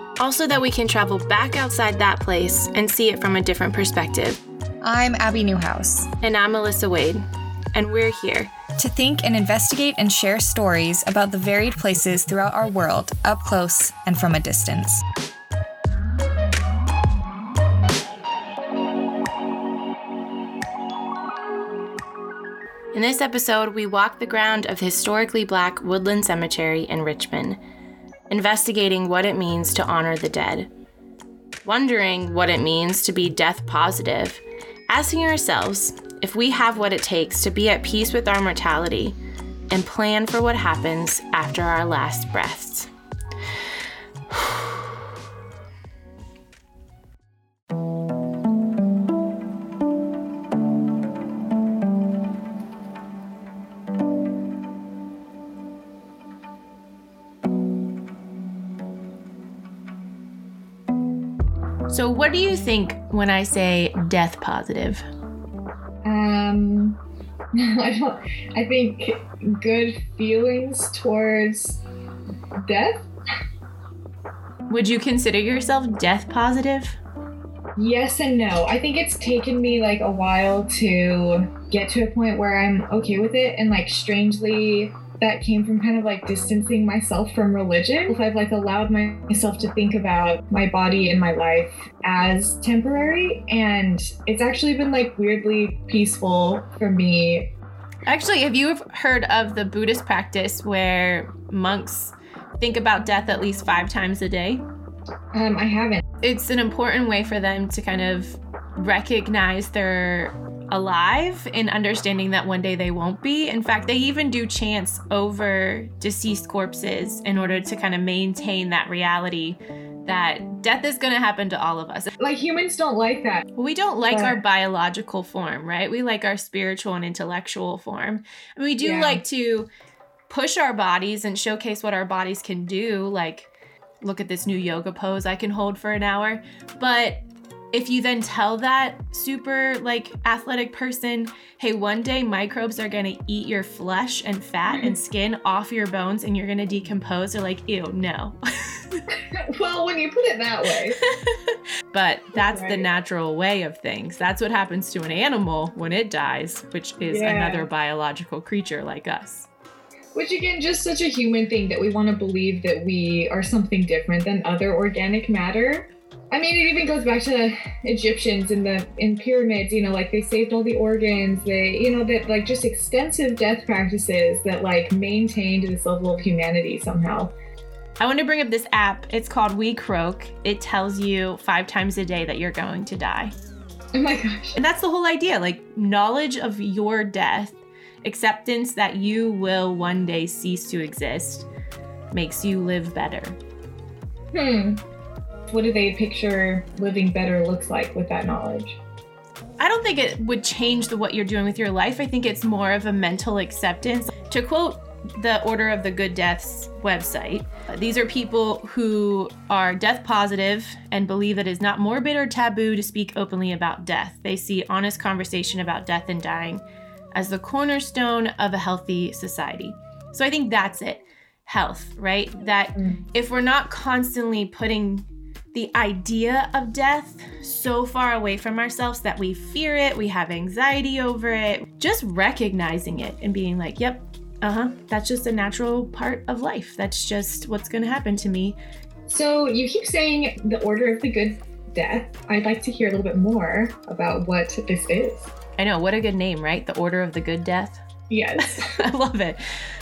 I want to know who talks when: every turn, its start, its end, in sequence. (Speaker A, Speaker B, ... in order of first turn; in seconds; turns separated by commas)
Speaker A: 0.2-4.4, Speaker B: 4.8-6.1, Speaker A: 6.2-7.2, Speaker A: 7.8-8.5, Speaker B: 8.8-15.0, Speaker A: 22.9-27.6, Speaker A: 28.3-30.7, Speaker A: 31.6-39.2, Speaker A: 39.7-42.9, Speaker A: 61.9-65.0, Speaker C: 66.0-67.0, Speaker C: 67.5-71.8, Speaker C: 72.6-73.0, Speaker A: 74.7-77.0, Speaker C: 77.8-97.5, Speaker A: 98.1-104.6, Speaker C: 105.3-106.0, Speaker A: 106.2-122.1, Speaker C: 122.2-123.5, Speaker A: 123.6-129.7, Speaker C: 124.1-124.4, Speaker C: 128.8-129.2, Speaker A: 130.3-148.4, Speaker C: 144.7-144.9, Speaker C: 149.3-151.0, Speaker A: 151.9-159.5, Speaker C: 152.3-152.9, Speaker C: 157.1-157.7, Speaker C: 160.2-177.3, Speaker A: 178.0-183.3, Speaker C: 183.9-184.6, Speaker A: 184.6-191.5, Speaker A: 192.1-193.4, Speaker C: 194.3-194.8, Speaker C: 195.5-198.8, Speaker A: 199.6-216.6, Speaker A: 217.2-238.6, Speaker C: 239.1-245.3, Speaker A: 245.6-247.8, Speaker C: 248.1-248.7, Speaker A: 248.4-249.4